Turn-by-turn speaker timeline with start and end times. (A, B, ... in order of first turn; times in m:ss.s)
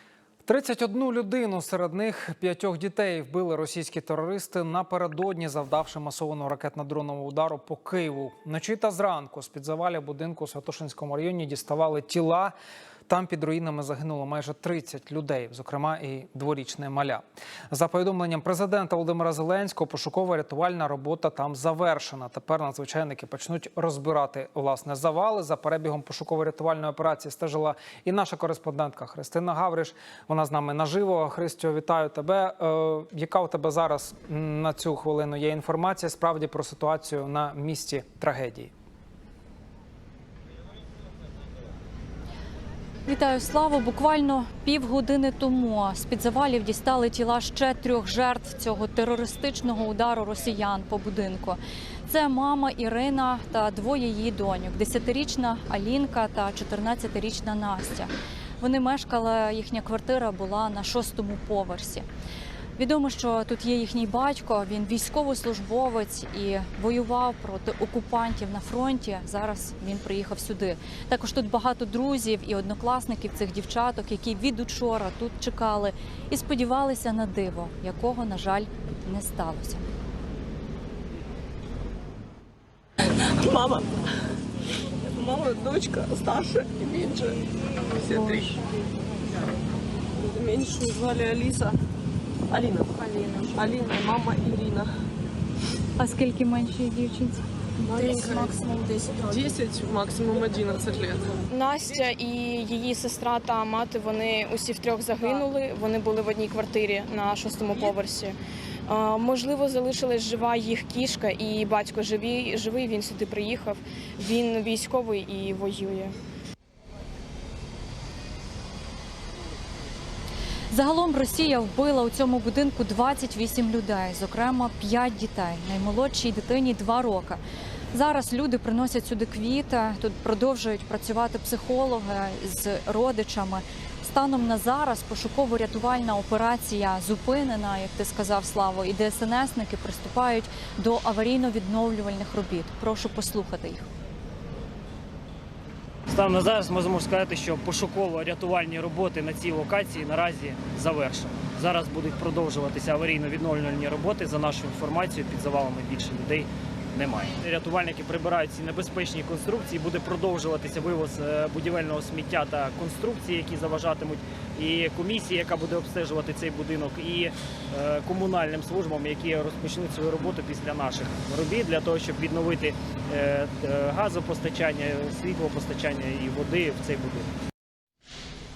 0:00.4-0:12.6 A
0:13.1-0:38.7 A
0:43.1-1:02.1 B
1:02.8-1:19.8 B
1:23.4-1:23.9 C
1:25.1-1:28.7 C
1:30.2-1:31.8 C
1:32.5-1:34.9 C
1:36.0-1:37.4 B
1:37.8-1:42.0 C
1:37.9-1:38.5 B
1:41.5-1:56.2 D
2:00.7-2:07.4 B
2:07.9-2:23.9 B
2:26.1-2:57.3 E